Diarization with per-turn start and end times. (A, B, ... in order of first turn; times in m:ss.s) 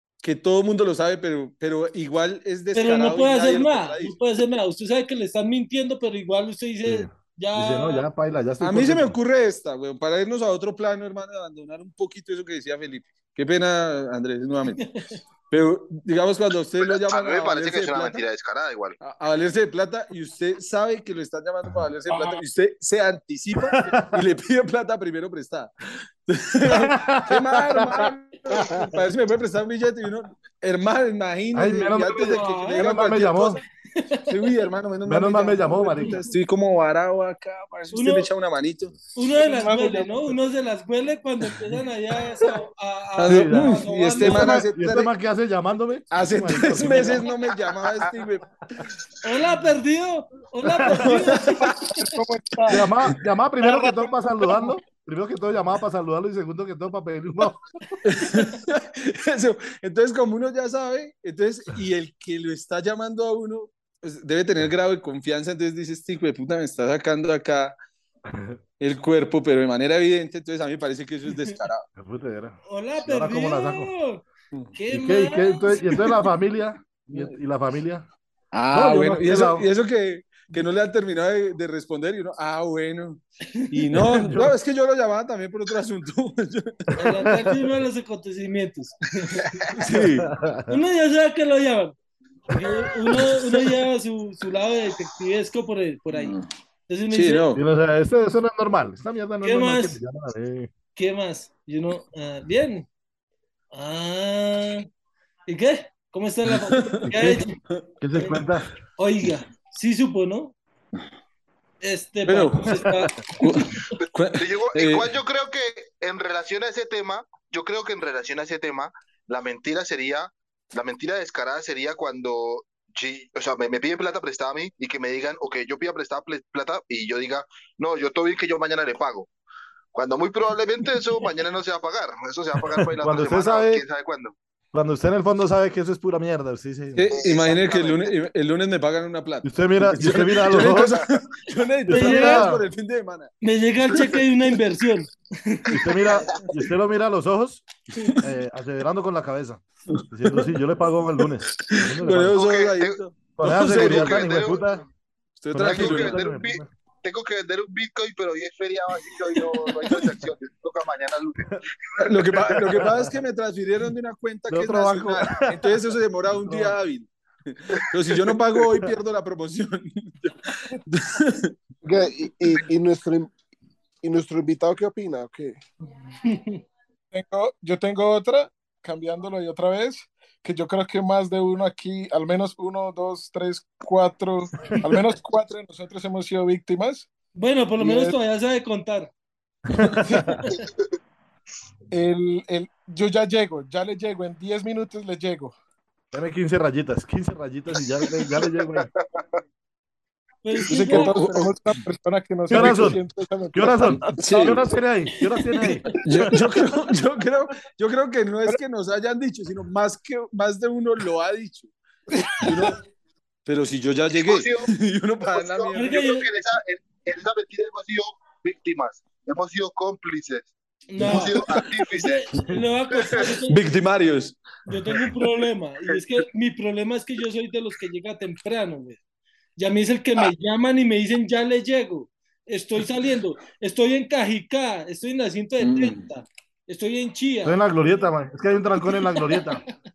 0:00.2-0:04.2 A
0:02.7-0:08.1 B
0:06.8-0:09.1 C
0:08.6-0:14.9 A
0:14.8-0:15.1 B
0:15.5-0:18.2 A
0:16.8-0:19.0 D
0:19.0-0:33.6 A
0:23.6-0:24.2 C
0:26.7-0:28.8 C
0:31.5-0:33.6 C
0:32.1-0:32.8 B
0:34.0-0:34.3 B
0:34.3-0:39.0 A
0:35.0-0:36.2 C
0:36.0-0:36.3 B
0:37.9-0:38.3 B
0:39.1-0:44.7 B
0:39.4-0:40.4 E
0:43.2-0:45.1 A
0:43.3-0:47.3 C
0:46.1-0:48.5 A
0:49.2-0:52.0 B
0:50.9-0:51.9 A
0:51.3-0:52.9 E
0:52.7-0:57.6 C
0:53.6-0:54.8 E
0:58.0-1:07.8 A
1:08.3-1:08.6 C
1:08.8-1:11.8 A
1:12.0-1:13.9 C
1:12.7-1:14.2 B
1:14.8-1:16.3 B
1:14.9-1:18.1 C
1:18.5-1:26.9 A
1:18.7-1:19.7 C
1:23.5-1:24.2 B
1:24.0-1:24.5 C
1:27.0-1:29.5 B
1:27.0-1:27.6 C
1:29.7-1:30.3 A
1:29.9-1:30.8 C
1:30.7-1:32.0 B
1:32.5-1:36.4 B
1:36.1-1:36.5 A
1:36.9-1:37.5 B
1:37.1-1:37.6 A
1:37.5-1:40.7 C
1:39.4-1:40.0 B
1:41.0-1:42.9 B
1:43.7-1:44.9 B
1:45.5-1:47.5 B
1:46.5-1:47.1 A
1:47.1-1:47.5 C
1:48.0-1:48.7 C
1:48.2-1:48.4 B
1:49.0-1:50.6 B
1:51.8-1:53.5 B
1:52.3-1:55.1 A
1:52.7-1:53.0 C
1:54.0-2:09.3 D
2:09.9-2:14.3 D
2:13.0-2:13.8 C
2:14.7-2:17.1 C
2:17.0-2:23.3 A
2:17.1-2:18.1 D
2:19.4-2:21.1 C
2:21.9-2:22.6 C
2:21.9-2:22.5 B
2:23.4-2:26.0 B
2:23.9-2:24.2 A
2:25.7-2:32.4 C
2:26.1-2:26.4 D
2:29.9-2:30.6 A
2:31.6-2:34.3 A
2:32.3-2:33.0 D
2:33.4-2:34.8 C
2:33.7-2:34.8 D
2:35.4-2:36.2 A
2:35.5-2:36.7 C
2:35.6-2:41.6 D
2:42.0-2:51.5 A
2:42.5-2:43.1 C
2:44.5-2:45.8 C
2:46.4-2:46.8 C
2:51.8-2:53.3 F
2:54.0-2:55.6 F
2:56.2-2:56.6 B
2:57.1-3:07.1 E
3:07.3-3:09.1 B
3:07.8-3:08.2 E
3:09.7-3:10.4 C
3:10.0-3:10.3 E
3:11.9-3:15.5 E
3:16.1-3:18.9 C
3:18.3-3:19.2 D
3:20.4-3:21.2 B
3:20.7-3:24.6 E
3:20.9-3:21.7 A
3:22.5-3:26.2 C
3:24.2-3:24.6 A
3:25.2-3:25.9 B
3:26.0-3:32.8 A
3:33.5-3:36.0 A
3:34.2-3:34.7 D
3:35.3-3:42.2 D
3:35.7-3:36.3 B
3:40.9-3:43.6 B
3:42.9-3:43.2 D
3:43.5-3:44.5 A
3:44.7-3:49.0 B
3:44.7-3:45.0 C
3:49.6-3:57.6 B
3:55.6-3:56.1 A
3:57.4-3:59.6 C
3:58.8-3:59.6 B